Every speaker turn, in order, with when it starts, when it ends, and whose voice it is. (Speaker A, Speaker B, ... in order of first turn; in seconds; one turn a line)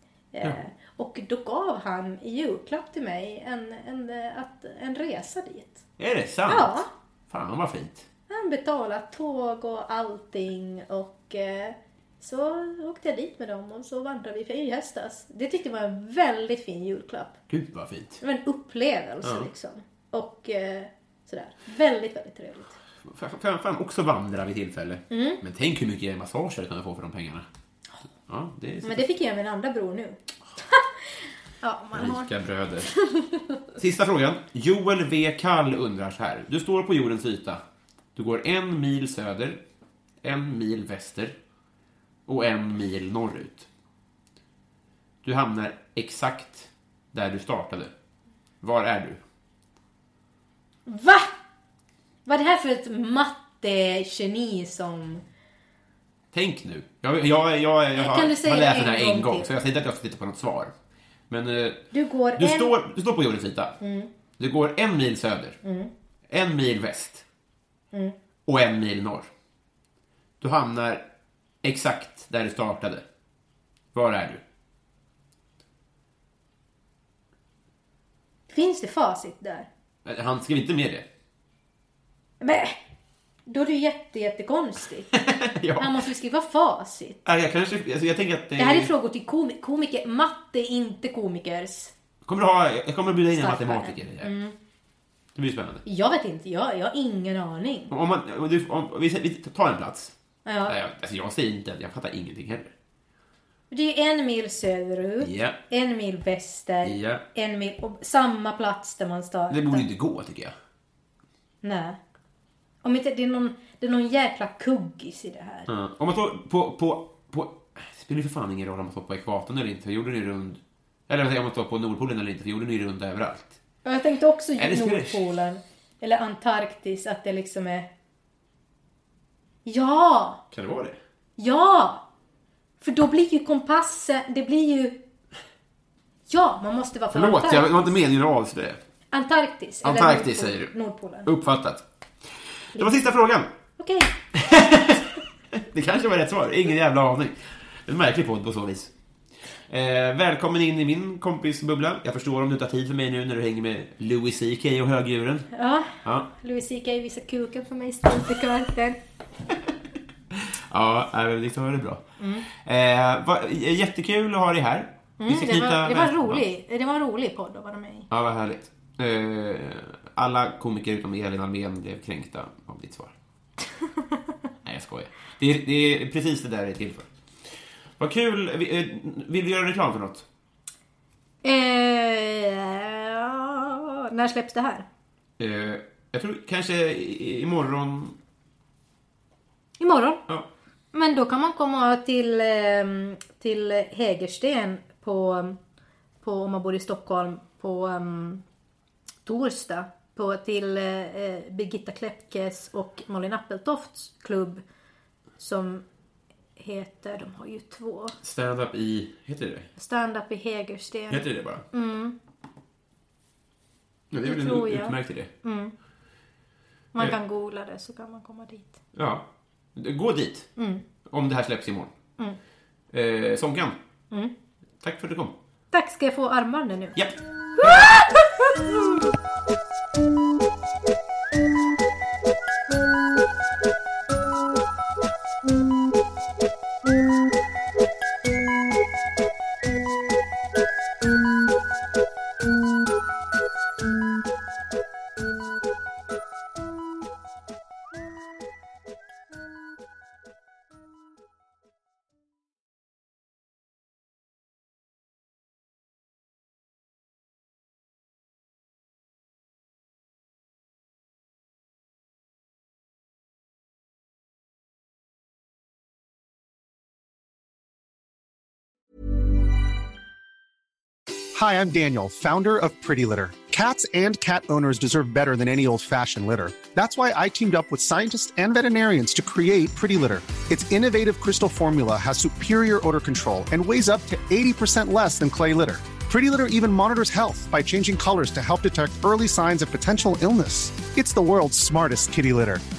Speaker A: 0.3-5.8
Speaker B: 6.0-8.1
Speaker A: 6.5-6.9
Speaker A: 8.3-17.4
Speaker B: 17.5-18.2
Speaker A: 18.2-22.8
Speaker B: 19.2-19.5
Speaker B: 23.0-27.4
Speaker A: 25.1-25.4
Speaker B: 28.3-29.0
Speaker A: 28.8-33.6
Speaker B: 31.9-32.9
Speaker B: 33.8-37.6
Speaker B: 38.1-39.6
Speaker B: 40.2-41.4
Speaker B: 42.3-43.7
Speaker B: 45.2-47.9
Speaker B: 48.6-49.2
Speaker A: 50.9-51.4
Speaker A: 52.2-55.2
Speaker B: 56.3-60.7
Speaker A: 57.9-59.5
Speaker B: 61.3-63.8
Speaker A: 61.9-62.7
Speaker A: 63.8-64.1
Speaker B: 64.4-65.6
Speaker A: 65.6-65.9
Speaker B: 66.3-67.2
Speaker B: 68.5-69.3
Speaker B: 70.4-71.1
Speaker B: 71.6-73.0
Speaker B: 73.9-74.4
Speaker A: 78.5-79.7
Speaker B: 80.0-81.0
Speaker A: 82.4-82.8
Speaker A: 83.5-85.1
Speaker B: 85.1-85.9
Speaker A: 85.8-87.2
Speaker B: 87.2-88.9
Speaker A: 88.6-91.9
Speaker B: 92.2-94.3
Speaker A: 93.3-94.5
Speaker B: 95.3-95.8
Speaker A: 95.8-97.9
Speaker B: 97.9-100.1
Speaker A: 100.4-100.8
Speaker B: 100.7-102.7
Speaker A: 103.7-109.8
Speaker B: 105.2-105.6
Speaker B: 106.8-107.2
Speaker B: 109.5-110.5
Speaker A: 111.6-112.0
Speaker A: 112.8-115.7
Speaker B: 115.7-123.6
Speaker A: 123.8-127.9
Speaker B: 124.6-125.2
Speaker A: 129.6-130.4
Speaker B: 130.5-131.0
Speaker A: 131.4-132.0
Speaker A: 132.8-135.0
Speaker A: 136.3-137.9
Speaker B: 137.1-138.8
Speaker A: 139.1-141.3
Speaker B: 139.8-140.7
Speaker B: 141.2-143.5
Speaker A: 142.7-143.1
Speaker A: 143.8-144.1
Speaker B: 144.3-148.9
Speaker B: 149.6-155.5
Speaker A: 155.5-159.0
Speaker B: 156.0-156.3
Speaker B: 160.3-166.4
Speaker A: 162.2-162.4
Speaker A: 165.2-168.1
Speaker B: 168.1-173.1
Speaker B: 174.6-180.2
Speaker A: 181.4-184.8
Speaker B: 185.4-188.2
Speaker A: 189.8-190.2
Speaker A: 190.9-195.6
Speaker A: 196.2-198.4
Speaker A: 199.2-204.6
Speaker A: 205.4-205.8
Speaker A: 206.6-208.2
Speaker B: 208.2-209.7
Speaker A: 209.8-212.2
Speaker B: 211.1-211.6
Speaker B: 214.1-215.3
Speaker A: 214.2-215.7
Speaker A: 216.9-218.7
Speaker B: 218.9-219.2
Speaker B: 219.8-220.5
Speaker A: 220.6-220.8
Speaker B: 221.1-221.9
Speaker B: 222.9-223.8
Speaker B: 224.8-225.3
Speaker A: 225.7-227.0
Speaker B: 226.9-227.9
Speaker A: 227.6-229.1
Speaker C: 271.3-292.6